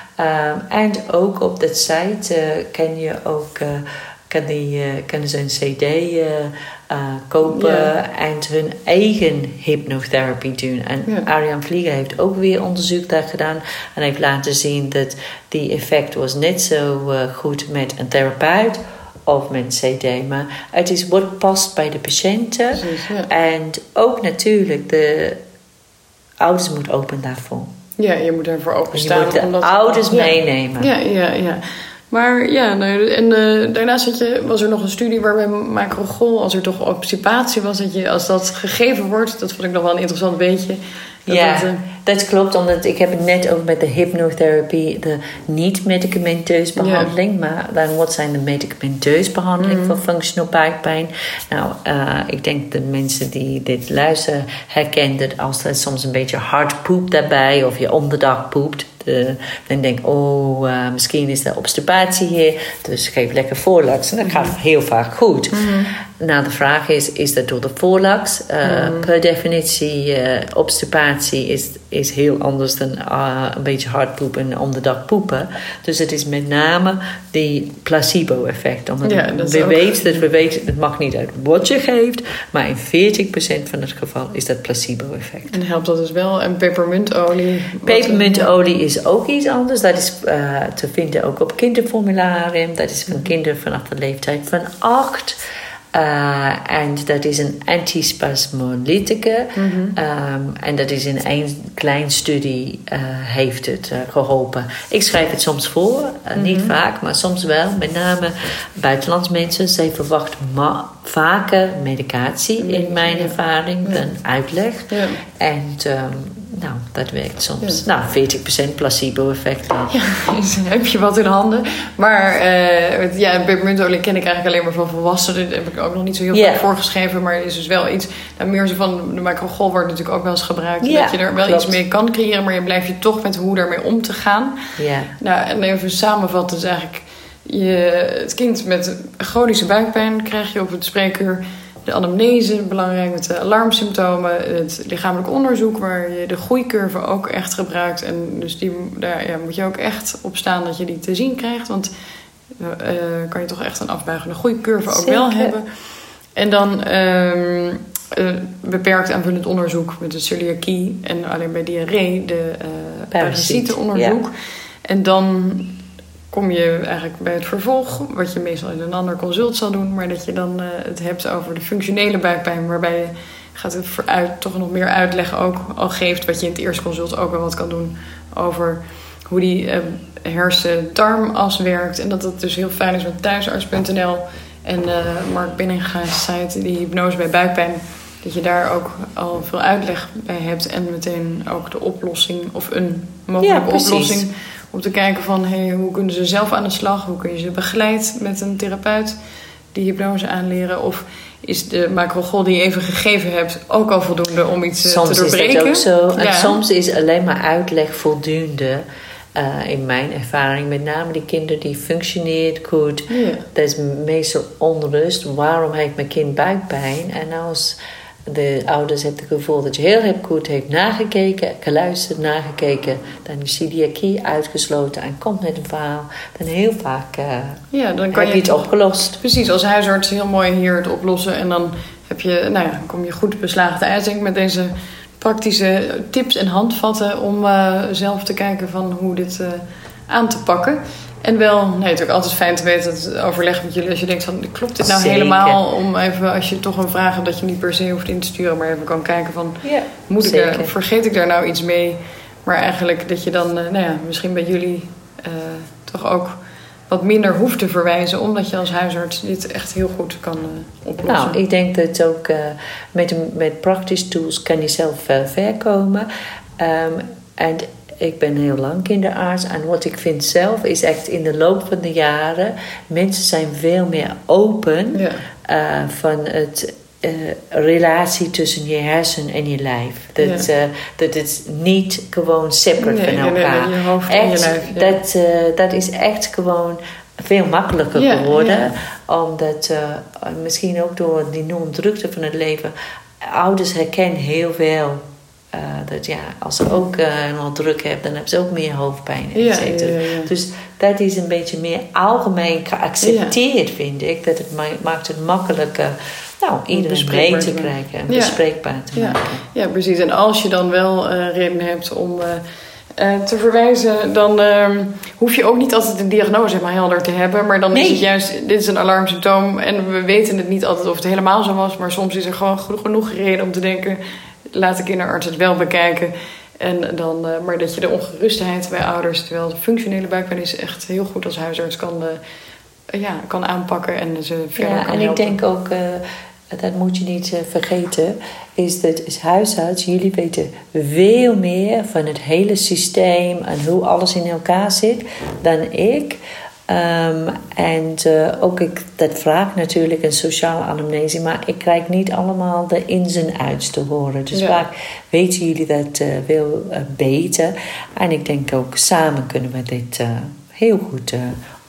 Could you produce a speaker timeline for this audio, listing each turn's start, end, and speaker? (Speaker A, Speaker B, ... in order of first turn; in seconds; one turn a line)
Speaker A: 0.2-25.4
Speaker B: 7.4-7.9
Speaker B: 22.7-23.3
Speaker A: 26.4-27.7
Speaker B: 28.0-41.8
Speaker A: 28.9-30.9
Speaker A: 41.3-85.5
Speaker B: 46.8-47.1
Speaker B: 49.6-50.0
Speaker B: 64.2-64.5
Speaker B: 65.5-65.9
Speaker B: 68.6-69.1
Speaker B: 79.0-80.2
Speaker B: 85.5-88.5
Speaker A: 87.8-95.4
Speaker A: 95.9-119.9
Speaker B: 99.5-100.0
Speaker B: 106.3-106.7
Speaker B: 112.6-114.0
Speaker B: 114.9-115.2
Speaker B: 119.9-134.6
Speaker A: 126.3-126.7
Speaker A: 130.8-131.8
Speaker A: 134.8-135.1
Speaker B: 135.2-151.9
Speaker B: 152.6-155.7
Speaker A: 154.9-155.5
Speaker B: 156.3-164.3
Speaker A: 163.1-164.2
Speaker B: 164.8-165.8
Speaker B: 166.3-199.2
Speaker A: 193.4-194.3
Speaker B: 199.7-206.6
Speaker A: 204.8-208.8
Speaker A: 209.3-227.6
Speaker B: 213.1-213.4
Speaker B: 227.7-256.4
Speaker A: 228.1-229.2
Speaker A: 244.8-245.6
Speaker A: 249.6-250.7
Speaker B: 256.9-261.4
Speaker A: 261.0-266.1
Speaker A: 266.6-309.4
Speaker B: 274.9-275.2
Speaker B: 280.2-280.4
Speaker B: 282.8-285.0
Speaker B: 287.9-288.7
Speaker B: 299.3-300.3
Speaker B: 303.0-303.3
Speaker B: 306.7-308.4
Speaker B: 308.9-312.4
Speaker B: 313.0-332.2
Speaker A: 317.7-318.1
Speaker B: 332.9-335.4
Speaker A: 334.6-361.4
Speaker B: 354.3-354.6